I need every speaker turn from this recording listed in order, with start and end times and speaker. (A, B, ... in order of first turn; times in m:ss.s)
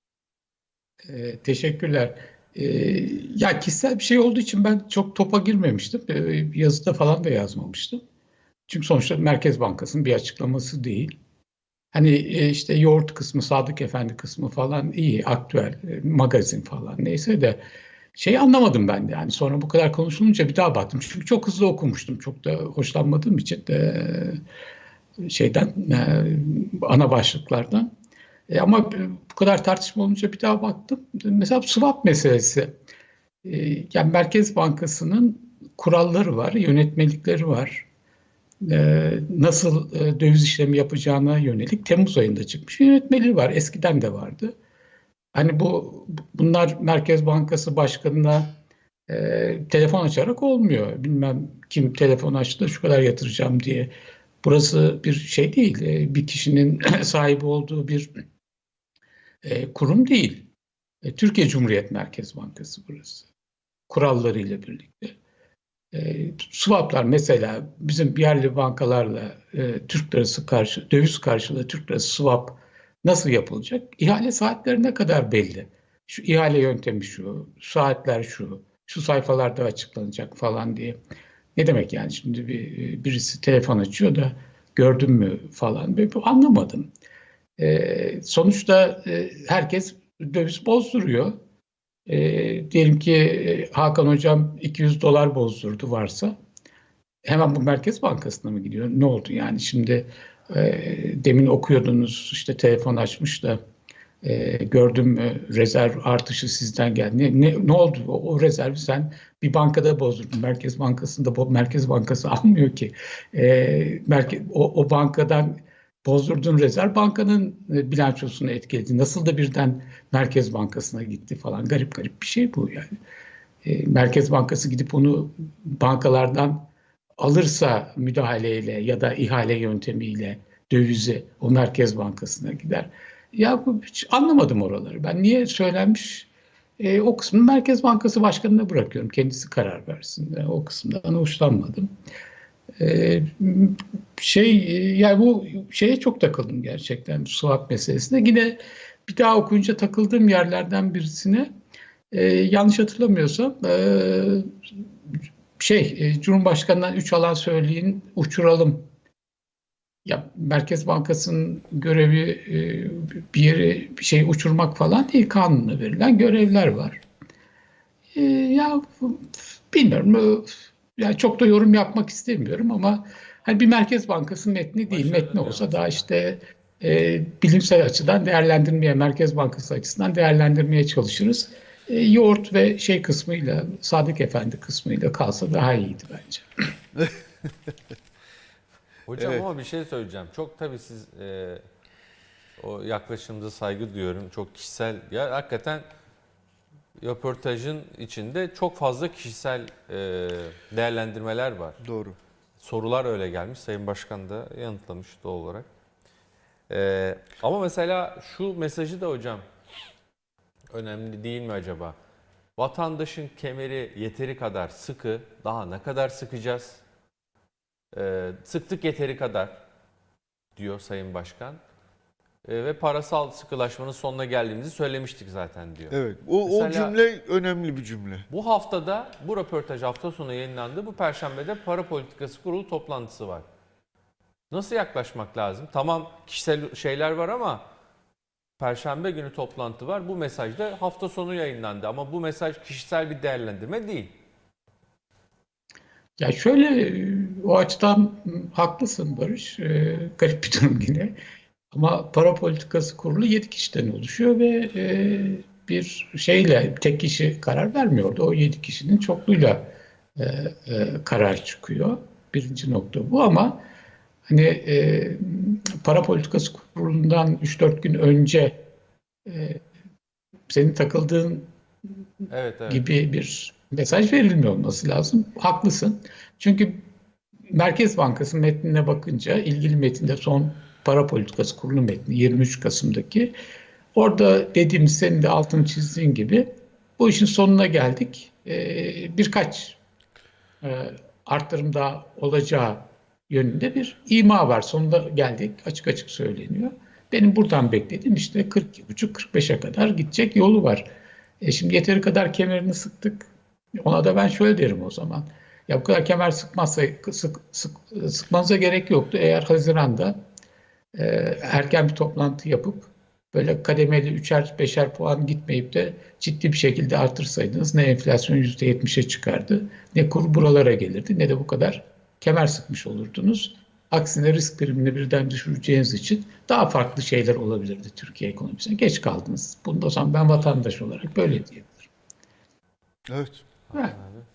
0:01.1-0:08.0 A
0:08.7-0:11.2 A
0:11.9-0:17.6 A
0:18.1-0:24.4 A
0:25.2-0:27.9 A
0:28.5-0:32.7 A
0:33.4-0:37.8 A
0:38.6-0:44.5 A
0:45.3-0:48.5 A
0:49.1-0:58.1 A
0:59.4-1:00.5 A
1:01.0-1:03.3 A
1:03.9-1:05.1 A
1:05.9-1:21.0 A
1:21.6-1:26.9 A
1:27.6-1:31.3 A
1:32.1-1:36.3 A
1:37.2-1:43.6 A
1:44.2-2:02.9 A
2:03.6-2:06.7 A
2:07.2-2:21.9 A
2:22.8-2:31.5 A
2:32.1-2:34.5 A
2:35.6-2:38.8 A
2:40.0-2:47.0 A
2:48.1-3:06.4 A
2:54.9-2:56.1 B
3:09.1-3:11.6 B
3:09.2-3:09.4 C
3:12.6-3:15.8 B
3:17.0-3:21.8 B
3:21.8-3:22.2 C
3:22.6-3:25.6 B
3:26.7-3:29.4 B
3:30.7-3:31.9 B
3:32.6-3:36.8 B
3:37.9-3:39.6 B
3:40.6-3:41.6 B
3:42.4-3:46.9 B
3:45.9-3:48.3 C
3:48.3-3:53.4 B
3:54.5-3:57.6 B
3:58.6-4:04.1 B
4:06.2-4:11.1 A
4:11.7-4:23.6 A
4:24.3-4:28.6 A
4:29.2-4:29.6 A
4:30.5-4:31.5 A
4:32.3-4:32.8 B
4:32.7-4:36.8 A
4:37.5-4:43.3 A
4:43.9-4:49.8 A
4:50.6-5:00.9 A
5:01.4-5:03.3 A
5:03.8-5:10.2 A
5:10.9-5:31.9 A
5:33.1-5:33.4 C
5:33.7-5:34.2 B